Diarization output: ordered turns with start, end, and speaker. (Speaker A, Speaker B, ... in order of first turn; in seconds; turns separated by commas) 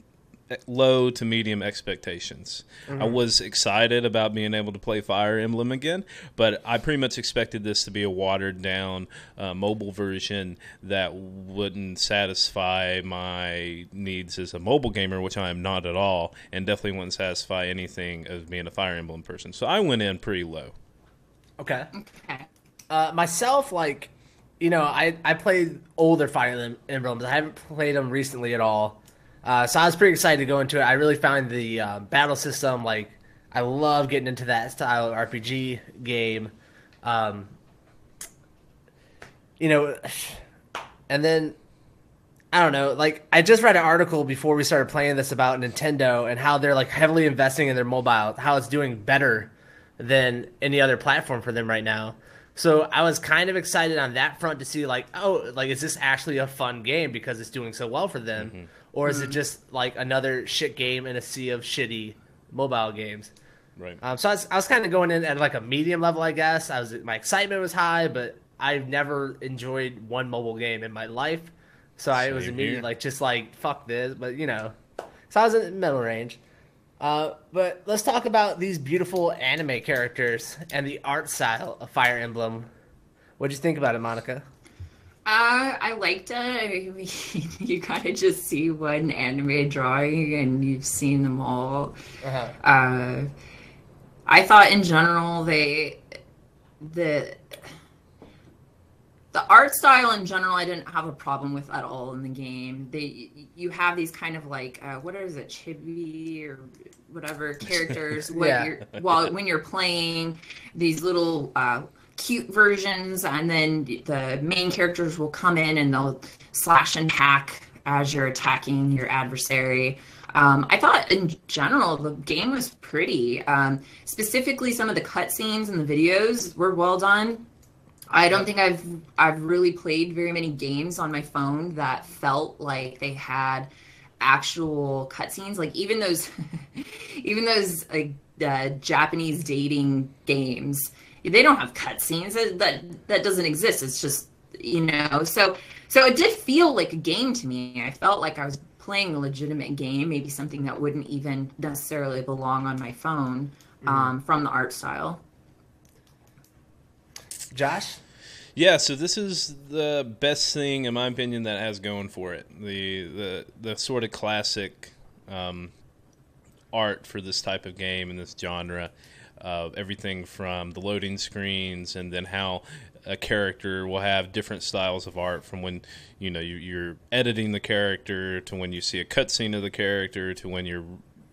Speaker A: 0.5-20.7, Speaker B: 2.9-3.2, Speaker B: 21.6-21.9, Speaker C: 21.9-22.5, Speaker B: 22.9-36.5, Speaker B: 37.0-37.5, Speaker B: 39.6-40.4, Speaker B: 41.1-41.6, Speaker B: 42.5-63.3, Speaker A: 58.4-58.7, Speaker C: 59.0-59.4, Speaker B: 64.0-74.8, Speaker A: 72.1-72.8, Speaker B: 75.3-76.4, Speaker B: 77.0-82.7, Speaker B: 83.4-84.4, Speaker C: 85.2-92.0, Speaker B: 92.2-92.5, Speaker C: 92.6-93.3, Speaker C: 94.3-96.2, Speaker C: 96.8-97.7, Speaker C: 99.3-127.4, Speaker B: 108.3-108.7, Speaker A: 109.0-109.3, Speaker C: 128.1-133.7, Speaker C: 134.2-155.2, Speaker B: 153.8-154.1, Speaker B: 157.5-158.0, Speaker A: 158.6-165.7, Speaker A: 166.7-181.0